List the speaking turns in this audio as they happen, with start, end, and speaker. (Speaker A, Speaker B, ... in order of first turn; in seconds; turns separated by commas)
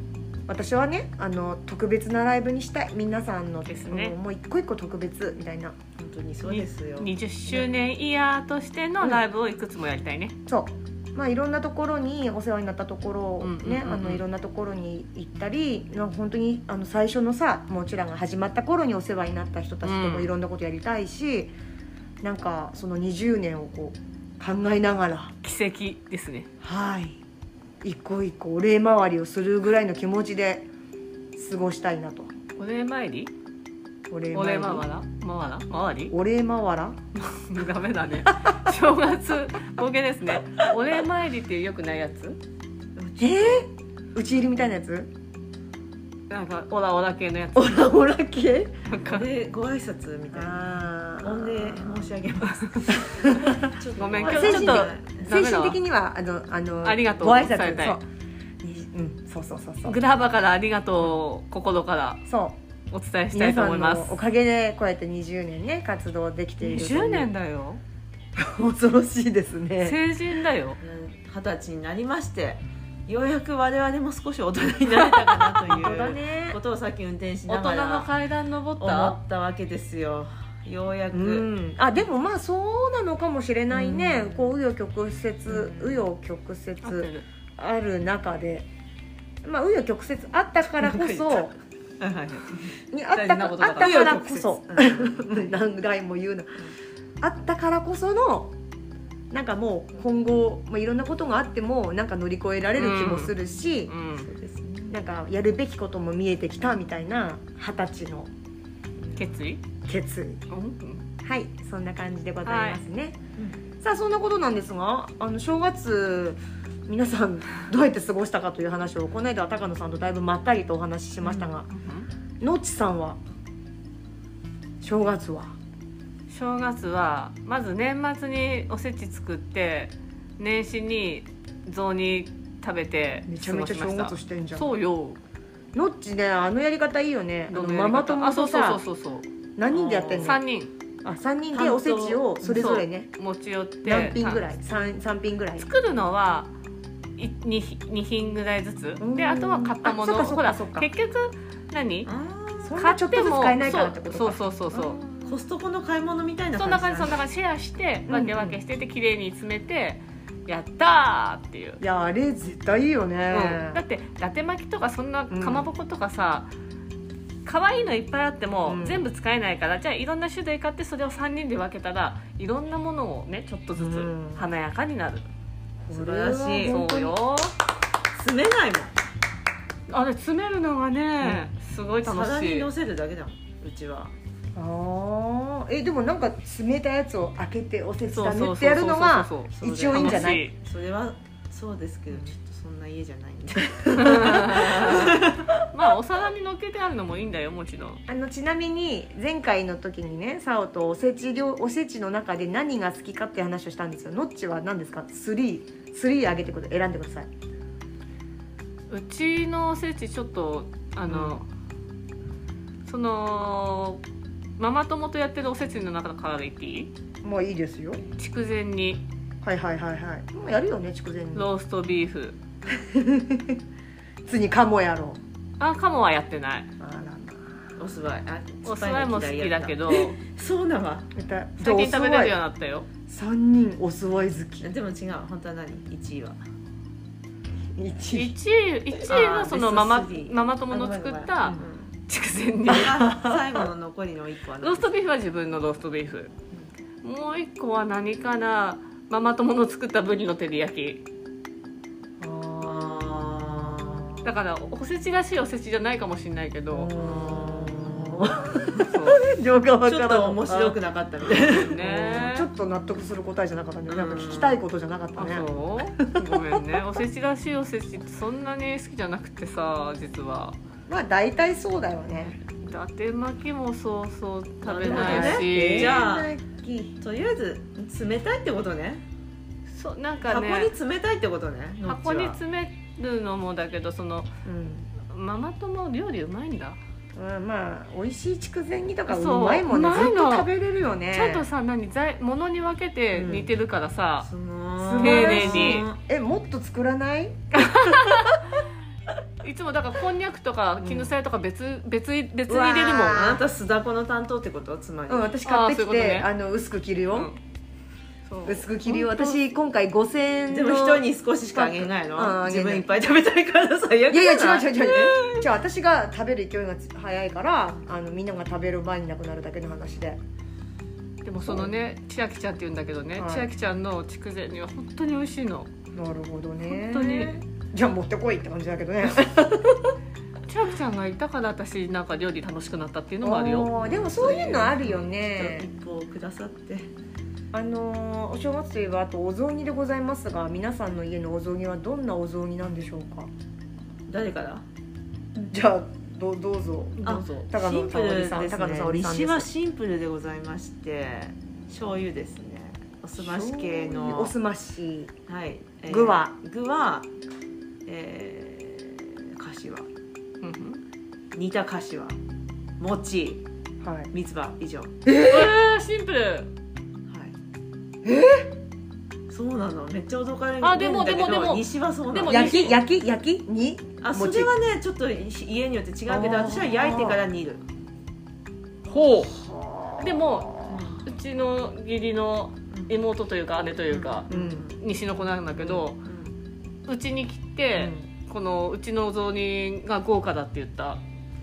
Speaker A: 0.5-5.8, Speaker B: 3.6-4.1, Speaker C: 6.0-7.7, Speaker B: 6.4-10.3, Speaker A: 10.5-21.5, Speaker B: 13.4-14.2, Speaker B: 19.8-20.3, Speaker A: 22.2-25.3, Speaker B: 25.4-26.5, Speaker A: 26.6-27.2, Speaker A: 27.8-30.7, Speaker A: 31.3-32.3, Speaker B: 32.6-33.3, Speaker A: 34.1-34.9, Speaker B: 34.3-36.1, Speaker A: 36.1-37.0, Speaker B: 37.1-42.4, Speaker C: 43.0-43.7, Speaker A: 43.2-45.1, Speaker B: 46.3-47.9, Speaker A: 47.5-48.8, Speaker B: 48.8-49.2, Speaker C: 49.0-50.7, Speaker A: 50.3-52.1, Speaker C: 51.2-55.1, Speaker A: 53.0-53.7, Speaker B: 53.9-55.8, Speaker A: 54.3-58.0, Speaker B: 56.8-58.0, Speaker A: 58.6-60.0, Speaker B: 59.9-62.2, Speaker A: 62.3-62.6, Speaker B: 62.9-64.2, Speaker A: 63.3-67.3, Speaker B: 66.6-67.8, Speaker A: 68.3-70.0, Speaker B: 69.8-70.8, Speaker C: 70.8-78.1, Speaker B: 74.9-75.5, Speaker A: 75.6-76.6, Speaker B: 77.5-79.2, Speaker C: 78.8-81.5, Speaker A: 81.1-88.7, Speaker C: 83.7-84.5, Speaker C: 85.5-86.1, Speaker B: 86.8-87.2, Speaker A: 89.4-91.5, Speaker C: 90.7-95.5, Speaker A: 92.9-96.7, Speaker B: 93.7-94.2, Speaker A: 97.2-98.5, Speaker A: 99.3-103.9, Speaker B: 102.8-103.3, Speaker B: 103.9-104.3, Speaker C: 104.2-105.0, Speaker A: 104.9-108.3, Speaker B: 109.2-109.6, Speaker A: 109.8-110.4, Speaker B: 110.5-111.0, Speaker A: 111.2-113.2, Speaker B: 112.5-112.8, Speaker A: 113.8-121.7, Speaker B: 121.6-122.1, Speaker A: 122.4-123.2, Speaker A: 124.8-125.5, Speaker B: 126.3-135.2, Speaker A: 133.3-134.7, Speaker A: 135.7-138.8, Speaker B: 137.5-139.2, Speaker A: 139.6-140.4, Speaker C: 139.7-140.4, Speaker B: 140.2-140.7, Speaker A: 141.0-143.1, Speaker C: 141.5-142.4, Speaker B: 142.4-144.5, Speaker A: 143.8-145.7, Speaker B: 145.6-146.5, Speaker B: 147.2-152.1, Speaker A: 149.0-150.9, Speaker C: 152.1-152.8, Speaker A: 152.6-155.4, Speaker B: 152.8-155.0, Speaker C: 155.2-157.2, Speaker B: 156.5-161.8, Speaker A: 158.1-158.6, Speaker A: 161.8-163.8, Speaker B: 163.3-166.5, Speaker A: 165.3-165.7, Speaker B: 167.4-175.2, Speaker A: 168.7-169.1, Speaker A: 173.7-174.5, Speaker A: 175.8-177.2, Speaker C: 175.9-176.8, Speaker B: 176.6-177.5, Speaker C: 178.1-178.9, Speaker B: 179.9-182.7, Speaker A: 181.2-181.5, Speaker C: 182.0-184.1, Speaker A: 184.5-190.4, Speaker B: 188.1-190.6, Speaker C: 189.8-195.2, Speaker A: 193.8-195.1, Speaker B: 193.9-198.0, Speaker A: 198.1-207.3, Speaker B: 208.9-211.5, Speaker B: 212.8-214.0, Speaker B: 214.6-216.9, Speaker A: 217.2-218.0, Speaker B: 218.1-219.0, Speaker A: 219.4-221.5, Speaker B: 221.3-222.3, Speaker A: 222.8-223.6, Speaker A: 224.2-225.2, Speaker B: 225.6-226.7, Speaker A: 226.8-227.7, Speaker C: 227.8-231.1, Speaker B: 228.6-230.2, Speaker A: 231.1-232.3, Speaker B: 231.6-232.9, Speaker A: 233.1-234.7, Speaker C: 234.6-236.4, Speaker A: 237.8-238.3, Speaker B: 238.1-243.1, Speaker C: 239.0-241.9, Speaker C: 242.7-244.9, Speaker A: 243.0-243.3, Speaker B: 244.6-246.3, Speaker B: 247.0-251.0, Speaker A: 252.2-254.3, Speaker C: 252.6-254.1, Speaker B: 254.2-256.9, Speaker A: 256.7-260.8, Speaker C: 257.0-258.2, Speaker B: 258.8-259.2, Speaker C: 259.8-261.8, Speaker B: 261.4-262.5, Speaker A: 261.8-266.6, Speaker C: 263.9-264.6, Speaker B: 265.1-270.6, Speaker A: 270.9-272.4, Speaker B: 272.6-276.0, Speaker C: 274.6-276.4, Speaker A: 274.8-277.0, Speaker C: 277.0-279.0, Speaker B: 279.7-280.7, Speaker C: 280.2-282.4, Speaker B: 281.9-284.3, Speaker A: 284.4-284.9, Speaker B: 285.0-286.8, Speaker A: 287.1-291.5, Speaker B: 289.1-290.5, Speaker B: 291.1-294.3, Speaker C: 293.1-293.5, Speaker C: 294.2-296.0, Speaker A: 294.8-298.2, Speaker B: 295.0-295.9, Speaker B: 297.6-298.4, Speaker B: 299.4-303.4, Speaker A: 300.8-301.1, Speaker A: 302.5-303.2, Speaker C: 302.6-305.3, Speaker A: 305.1-307.3, Speaker B: 305.4-306.3, Speaker B: 307.1-307.4, Speaker B: 308.3-309.3, Speaker A: 308.4-312.9, Speaker C: 310.5-315.3, Speaker A: 314.1-320.2, Speaker B: 321.2-325.7, Speaker A: 321.4-321.7, Speaker A: 323.1-323.5, Speaker A: 325.9-330.0, Speaker B: 326.6-327.4, Speaker B: 330.5-333.7, Speaker A: 333.2-335.7, Speaker C: 333.8-336.9, Speaker A: 337.5-343.3, Speaker C: 344.1-344.6, Speaker A: 345.4-349.5, Speaker B: 347.0-347.5, Speaker C: 347.0-354.3, Speaker A: 353.2-355.1, Speaker C: 355.3-357.1, Speaker A: 355.9-356.4, Speaker C: 357.9-359.9, Speaker B: 360.4-360.8, Speaker C: 361.3-362.2, Speaker C: 362.8-363.4, Speaker A: 363.8-364.1, Speaker C: 364.1-364.9, Speaker A: 365.1-365.6, Speaker B: 365.1-366.5, Speaker C: 367.1-367.3, Speaker A: 368.0-368.5, Speaker C: 369.3-372.7, Speaker B: 370.6-372.8, Speaker A: 372.2-374.5, Speaker C: 374.0-377.6, Speaker A: 376.1-377.2, Speaker B: 378.9-379.4, Speaker A: 379.2-380.6, Speaker B: 380.0-386.0, Speaker C: 380.6-381.1, Speaker C: 382.7-382.9, Speaker C: 383.9-384.8, Speaker A: 384.3-384.6, Speaker C: 385.5-386.3, Speaker B: 386.9-391.0, Speaker A: 387.7-388.0